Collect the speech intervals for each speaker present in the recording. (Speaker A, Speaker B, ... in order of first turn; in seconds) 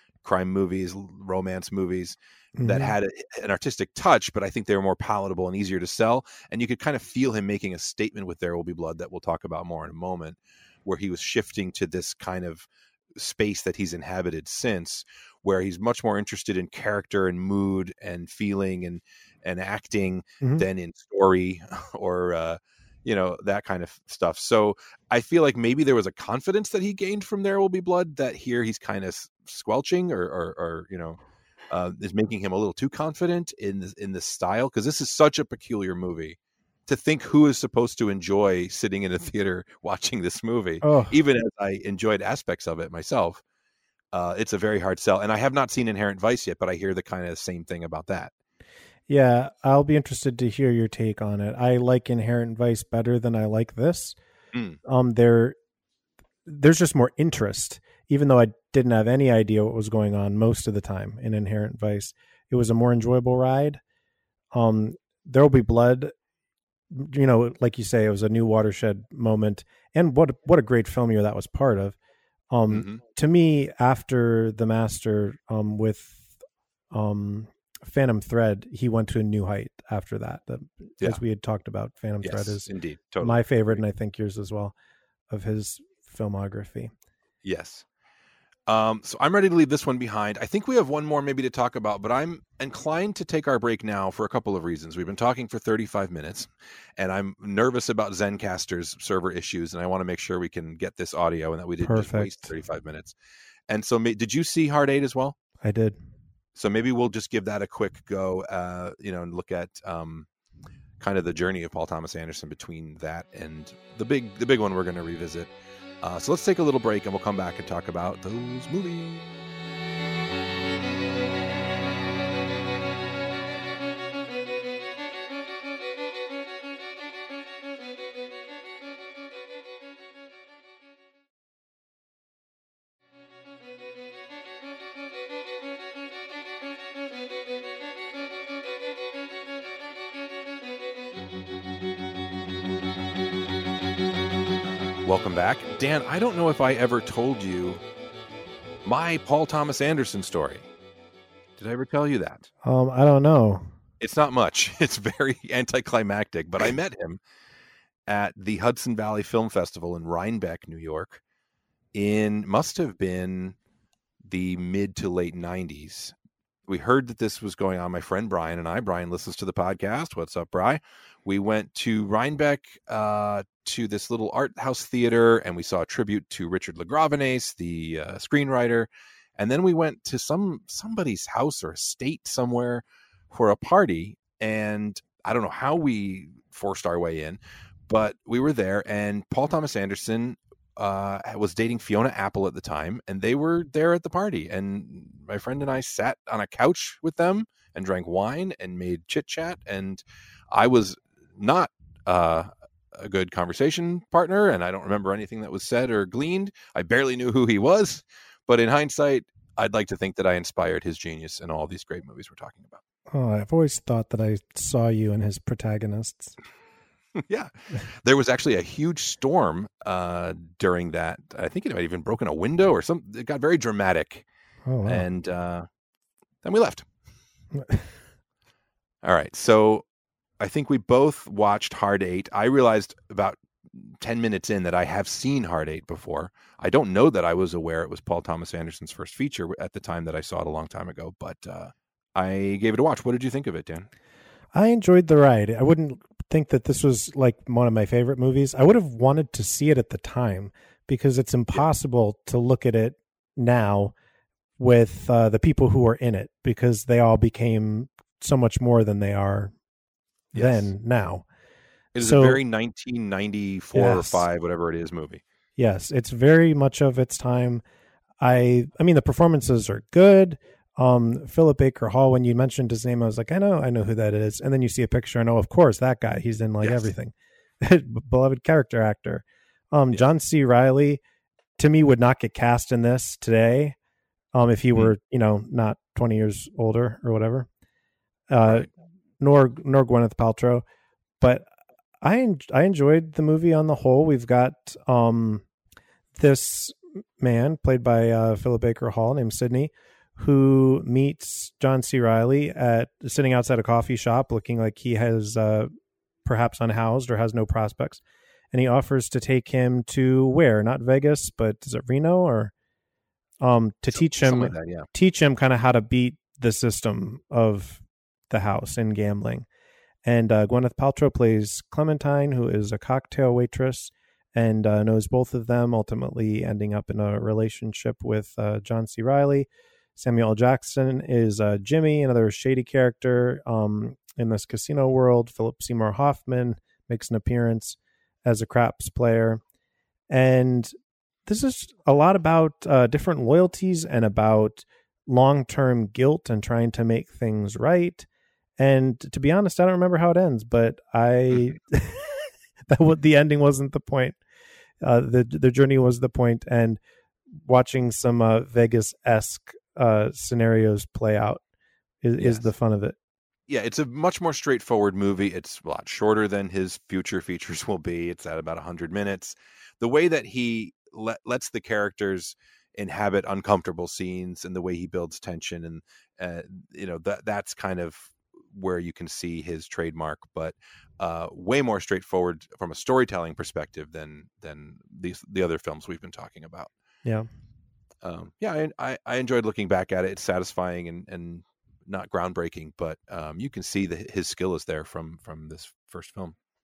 Speaker A: 0.2-31.2, 31.7-43.4, 44.1-48.3, 54.5-54.8, 72.7-73.0, 82.2-83.8, 87.4-87.8, 88.7-103.2, 103.7-105.3, 106.5-110.3, 111.0-119.2, 145.0-147.8, 148.8-150.7, 151.6-152.5, 154.0-157.2, 158.1-161.2, 161.9-163.6, 164.2-166.1, 166.7-212.8, 217.2-224.2, 224.8-225.7, 226.4-226.8, 229.0-229.8, 230.4-243.9, 260.3-260.7, 261.9-265.2, 276.6-276.9, 313.9-314.9, 362.2-362.5, 363.5-386.7, 388.0-396.3
Speaker B: 2.5-2.9, 40.8-41.1, 49.1-54.2, 54.8-55.5, 56.5-63.8, 64.5-66.1, 66.9-72.0, 72.5-76.3, 76.9-82.7, 83.2-84.7, 85.3-86.9, 101.8-102.5, 105.6-106.0, 152.6-153.7, 213.1-216.3, 224.7-225.1, 227.5-227.9, 244.5-253.9, 254.6-259.5, 260.3-261.2, 262.0-262.4, 263.7-264.2, 265.6-267.6, 268.2-281.0, 281.6-283.8, 284.3-287.5, 288.3-288.7, 289.2-290.6, 291.2-291.5, 292.0-295.4, 296.2-305.7, 306.2-312.5, 313.4-319.5, 320.0-339.4, 340.1-340.7, 341.3-348.1, 348.6-354.2, 354.8-356.8, 357.4-361.4, 362.0-362.9